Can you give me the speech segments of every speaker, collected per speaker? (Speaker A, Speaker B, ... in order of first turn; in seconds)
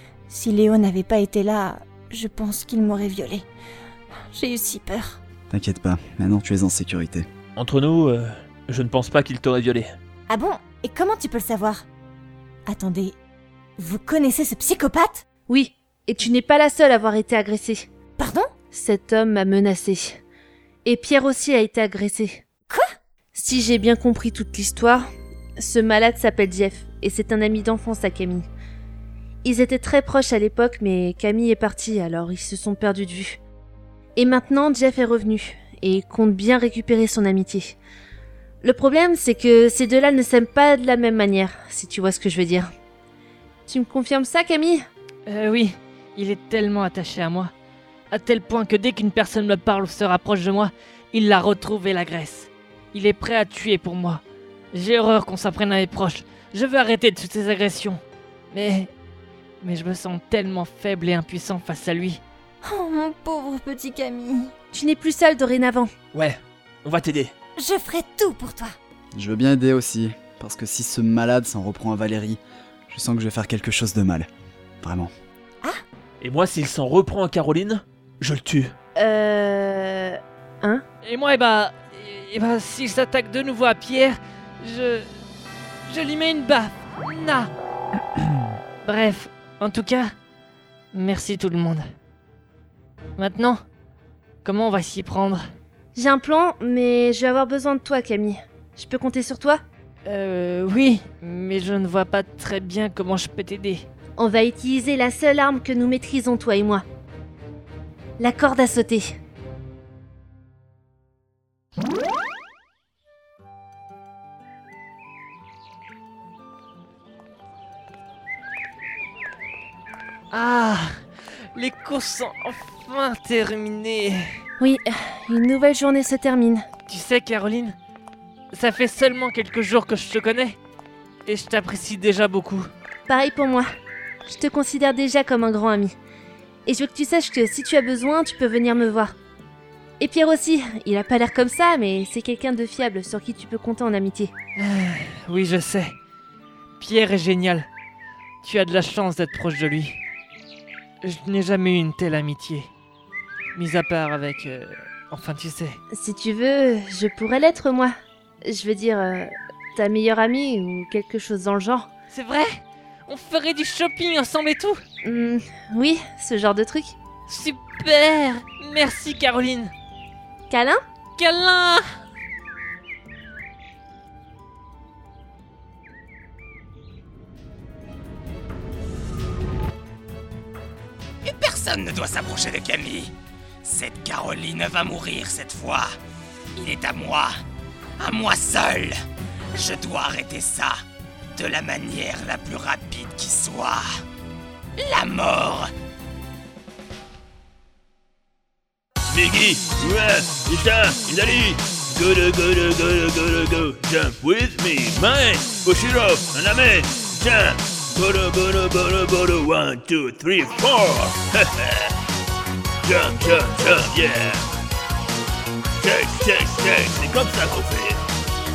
Speaker A: 0.3-3.4, 4.3-5.2, 10.3-11.8, 12.7-13.2, 13.8-15.2, 18.2-18.5, 62.6-64.5, 67.6-68.7
Speaker B: 5.5-7.3, 69.1-74.3, 74.8-75.1
Speaker C: 7.5-9.9, 66.1-67.3, 76.2-78.7
Speaker D: 15.5-17.9, 18.7-20.2, 20.8-22.4, 23.3-25.0, 25.6-28.5, 29.4-33.4, 34.1-37.8, 38.6-42.7, 43.7-44.8, 64.7-65.9, 79.0-80.8, 95.9-99.6, 104.2-106.8, 108.2-109.1, 124.6-126.6, 133.1-133.7, 134.2-135.9, 136.7-139.1, 140.0-144.3, 155.9-157.9, 158.4-161.9, 165.0-166.9, 170.5-170.8
Speaker E: 45.3-47.5, 48.1-54.2, 54.7-58.9, 59.6-62.2, 81.0-85.1, 85.9-87.5, 88.8-90.1, 90.9-91.8, 93.2-93.6, 94.4-95.4, 100.1-103.8, 120.3-120.9, 121.5-124.2, 126.9-127.8, 128.5-130.6, 131.2-132.7, 144.6-145.9, 146.8-147.7, 148.4-150.0, 151.0-152.7, 153.5-155.8, 162.1-164.8, 167.3-169.7, 171.2-171.8
Speaker F: 181.2-185.9, 186.6-187.3, 188.0-189.0, 189.5-190.8, 191.3-194.0, 194.8-195.7
Speaker G: 199.1-211.9, 212.8-214.4, 215.8-218.0